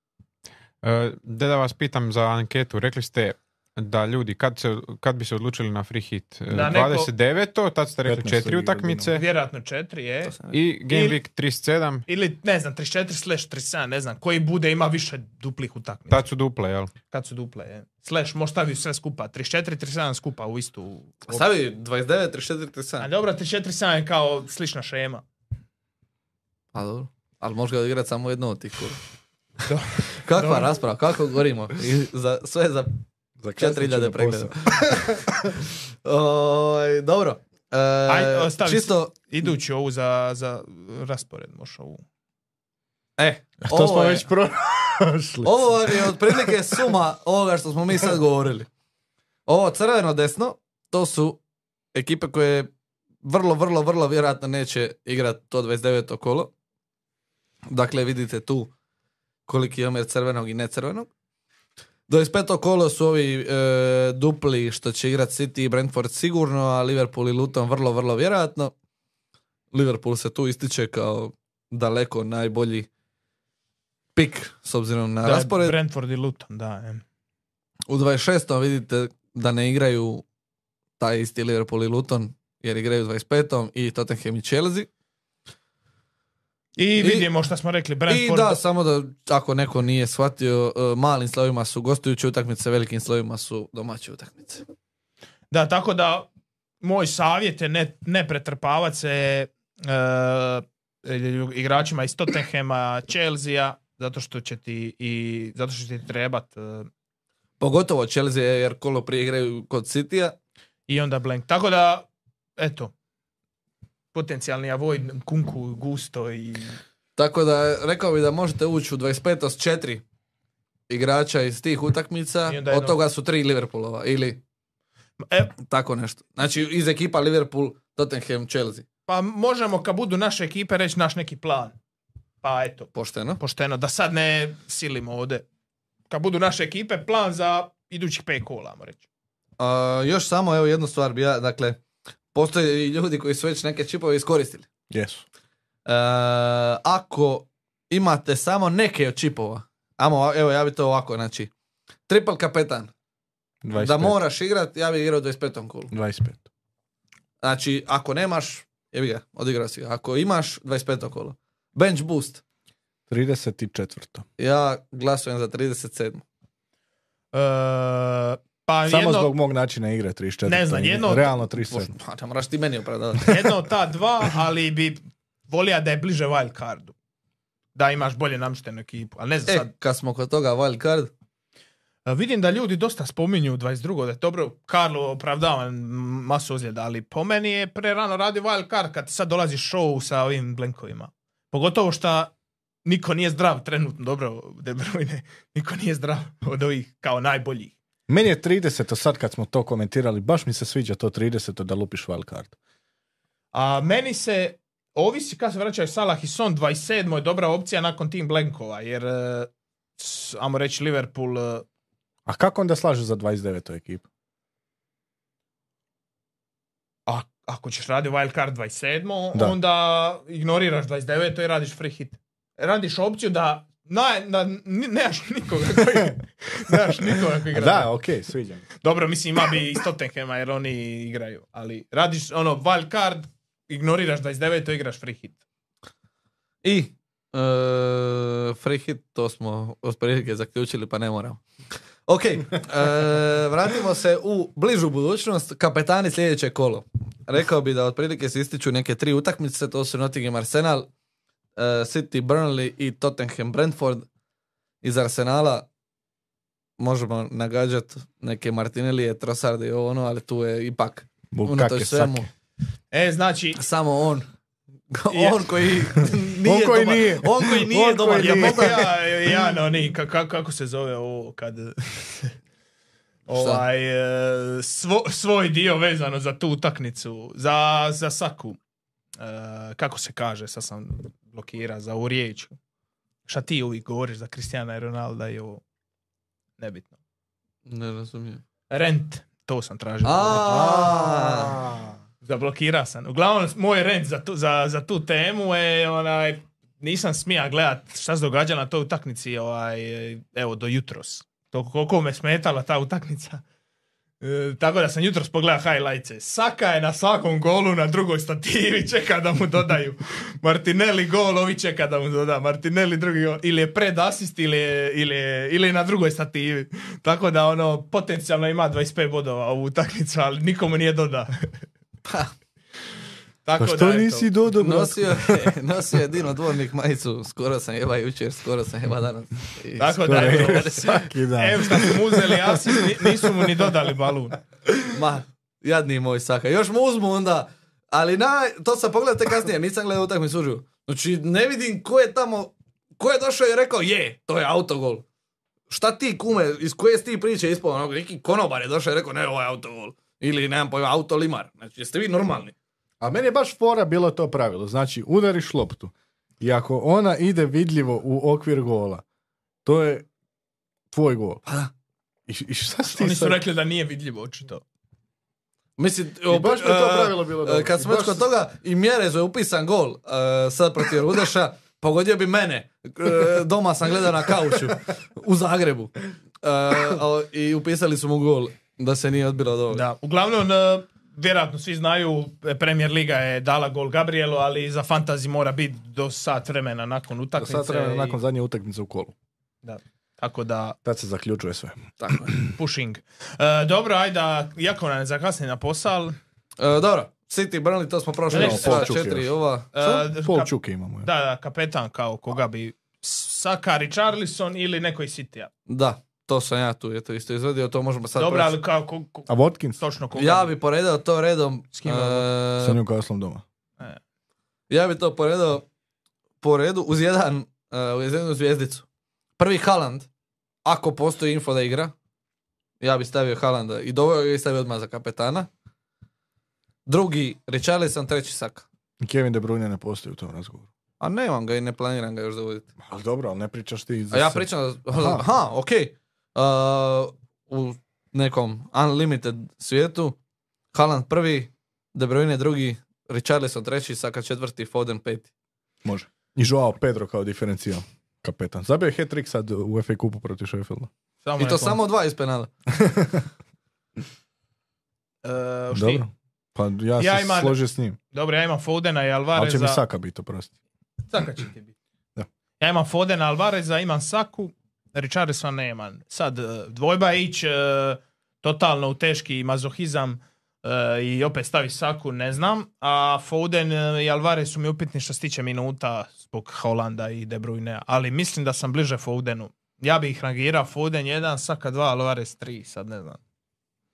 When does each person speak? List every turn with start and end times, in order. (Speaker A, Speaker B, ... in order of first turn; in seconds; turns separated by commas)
Speaker A: 0.8-9.2, Speaker B: 6.5-7.1, Speaker C: 8.0-9.1, Speaker B: 9.1-10.3, Speaker D: 10.2-10.5, Speaker A: 10.5-12.0, Speaker B: 10.9-11.2, Speaker B: 12.1-16.2, Speaker A: 16.1-16.9, Speaker B: 17.1-21.4, Speaker D: 21.3-23.1, Speaker B: 23.0-25.2, Speaker D: 26.7-29.0, Speaker B: 29.6-30.8, Speaker D: 30.2-32.9, Speaker C: 33.4-35.5, Speaker D: 33.6-35.2, Speaker D: 36.0-39.1, Speaker B: 38.1-42.0, Speaker D: 43.2-44.2, Speaker C: 43.6-46.9, Speaker D: 45.4-48.7, Speaker D: 49.5-51.4, Speaker D: 51.9-52.7, Speaker D: 53.2-56.5, Speaker D: 57.7-58.7, Speaker D: 59.5-61.1, Speaker D: 62.1-68.7, Speaker D: 69.7-72.9, Speaker D: 74.2-75.8, Speaker B: 75.2-77.0, Speaker D: 77.9-80.2, Speaker D: 81.0-84.9, Speaker B: 86.8-88.6, Speaker D: 87.0-87.3, Speaker D: 88.1-94.6, Speaker B: 95.5-96.3, Speaker B: 96.8-106.9, Speaker D: 107.6-110.4, Speaker B: 110.9-112.9, Speaker B: 114.1-116.8, Speaker D: 117.2-120.0, Speaker D: 120.9-124.4, Speaker B: 122.5-123.0, Speaker B: 125.2-125.5, Speaker D: 125.6-128.8, Speaker B: 129.1-131.7, Speaker B: 132.4-135.4, Speaker D: 132.9-133.4, Speaker B: 136.1-139.0, Speaker D: 139.6-141.8, Speaker D: 142.3-144.7, Speaker C: 144.9-145.2, Speaker D: 145.8-151.5, Speaker D: 152.1-152.9, Speaker C: 153.6-154.2, Speaker D: 153.7-155.9, Speaker C: 155.9-156.4, Speaker D: 157.4-162.4, Speaker C: 163.1-164.2, Speaker D: 164.4-166.2, Speaker B: 167.3-169.3, Speaker C: 168.9-171.9, Speaker B: 170.4-171.3, Speaker D: 171.6-173.3, Speaker B: 173.2-176.9, Speaker B: 177.7-179.7, Speaker D: 179.5-181.1, Speaker B: 182.1-192.3, Speaker B: 192.8-197.7, Speaker C: 198.1-202.5, Speaker B: 203.5-211.6, Speaker C: 212.2-214.0, Speaker B: 217.1-227.9, Speaker C: 227.5-228.7, Speaker B: 228.8-235.4, Speaker D: 236.6-241.4, Speaker D: 242.1-250.9, Speaker D: 251.6-254.1, Speaker D: 254.8-255.7, Speaker D: 256.8-262.3, Speaker C: 261.3-262.3, Speaker B: 262.9-263.6, Speaker D: 263.6-264.3, Speaker D: 264.9-268.8, Speaker B: 265.1-266.1, Speaker C: 266.4-268.9, Speaker B: 268.2-272.3, Speaker B: 273.3-278.6, Speaker D: 273.3-273.6, Speaker B: 279.2-282.6, Speaker B: 283.2-285.6, Speaker B: 286.6-286.9, Speaker D: 287.6-288.4, Speaker B: 288.7-291.0, Speaker D: 290.0-291.6, Speaker C: 290.5-291.8, Speaker B: 292.2-303.4, Speaker B: 304.2-321.5, Speaker D: 322.1-322.3, Speaker B: 323.4-324.3, Speaker C: 323.6-325.5, Speaker D: 324.6-330.9, Speaker B: 329.8-334.4, Speaker C: 330.0-333.7, Speaker D: 334.9-345.0, Speaker D: 345.7-352.5, Speaker C: 353.0-359.0, Speaker C: 359.6-360.1, Speaker C: 360.9-361.4, Speaker D: 361.4-361.7, Speaker C: 362.3-363.4, Speaker B: 362.9-364.6, Speaker D: 365.8-379.8, Speaker C: 366.3-368.2, Speaker B: 379.7-388.2, Speaker C: 387.4-389.1, Speaker B: 389.6-390.8, Speaker C: 390.8-391.9, Speaker D: 392.0-392.3, Speaker B: 392.4-396.2, Speaker D: 396.6-399.7, Speaker C: 398.3-401.1, Speaker B: 398.3-399.0, Speaker B: 399.7-400.5, Speaker B: 401.0-405.5, Speaker D: 405.7-408.5, Speaker B: 408.1-410.5, Speaker C: 409.3-409.8, Speaker D: 410.1-412.8, Speaker B: 411.7-412.3, Speaker C: 412.6-413.4, Speaker D: 414.7-415.6, Speaker D: 416.4-418.8, Speaker D: 419.4-420.1, Speaker D: 420.6-421.9, Speaker D: 422.8-425.5, Speaker D: 426.9-428.6, Speaker C: 429.0-430.7, Speaker D: 431.0-432.7, Speaker C: 432.8-435.2, Speaker D: 434.1-440.2, Speaker D: 440.7-445.3, Speaker C: 445.8-450.9, Speaker B: 451.2-451.8, Speaker D: 451.4-452.5, Speaker C: 452.8-453.2, Speaker B: 455.2-456.0, Speaker C: 455.7-458.0, Speaker B: 457.0-457.6, Speaker B: 458.1-459.8, Speaker C: 459.3-460.5, Speaker B: 461.1-461.7, Speaker B: 462.6-483.2